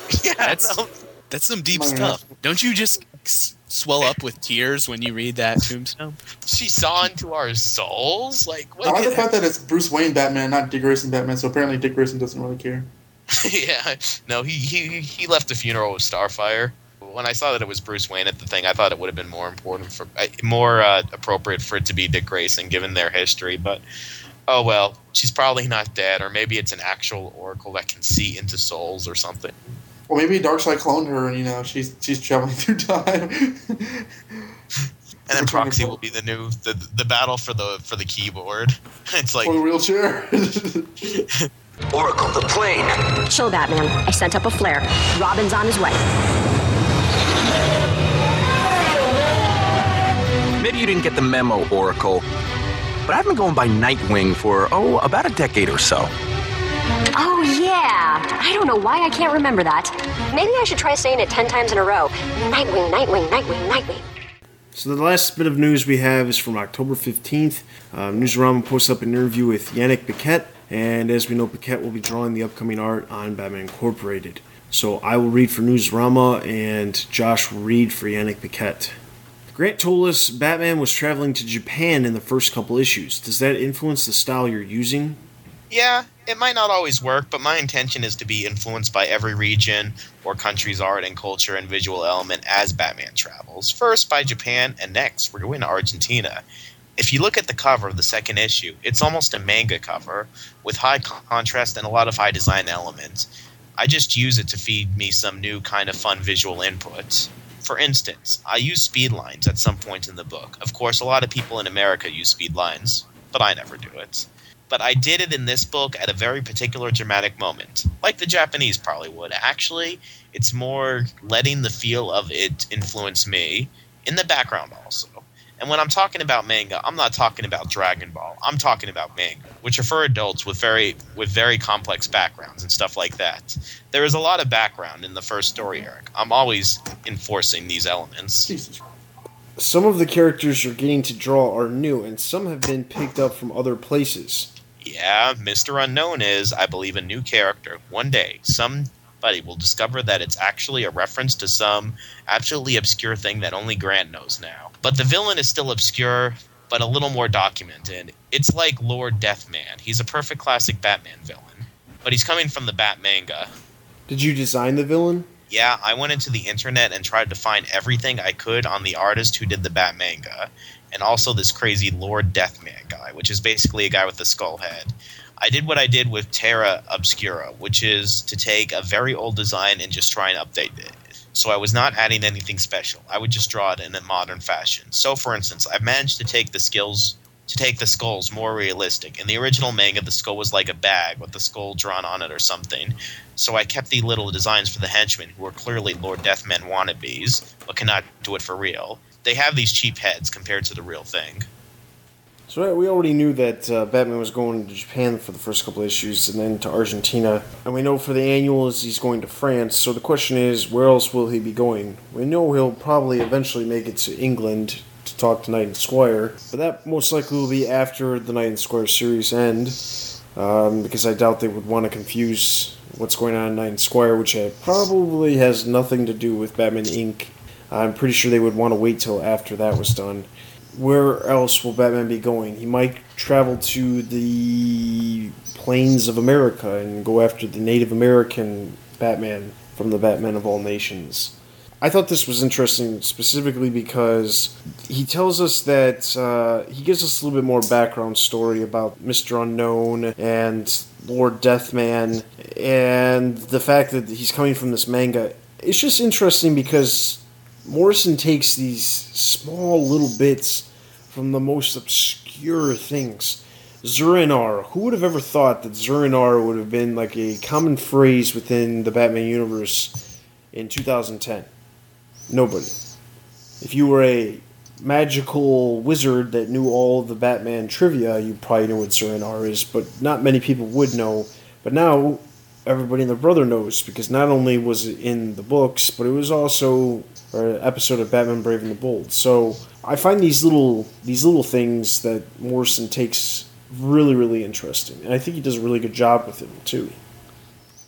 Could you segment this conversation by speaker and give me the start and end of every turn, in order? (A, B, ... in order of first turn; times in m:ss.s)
0:00.1-0:00.9 A
0:00.4-0:06.2 B
0:01.7-0:02.2 C
0:06.4-0:09.2 A
0:08.8-0:12.9 C
0:13.3-0:23.8 A
0:24.5-0:29.6 A
0:30.1-0:34.1 C
0:35.3-0:39.6 A
0:35.4-0:36.0 C
0:39.4-0:41.2 C
0:41.9-0:42.9 D
0:43.3-0:46.0 E
0:50.6-0:52.2 D
0:53.1-0:56.1 D
0:57.2-1:04.0 E
1:04.7-1:19.0 F
1:19.5-1:25.2 F
1:25.7-1:36.4 A
1:37.0-2:18.5 A
2:18.5-2:18.8 C
2:19.6-2:24.5 F
2:24.8-2:43.5 A
2:44.1-2:45.3 F
2:45.5-3:21.5 A
3:22.5-3:39.8 F
3:40.4-4:30.0 F
4:30.5-4:31.5 F
4:32.3-4:32.8 F
4:33.6-4:57.0 F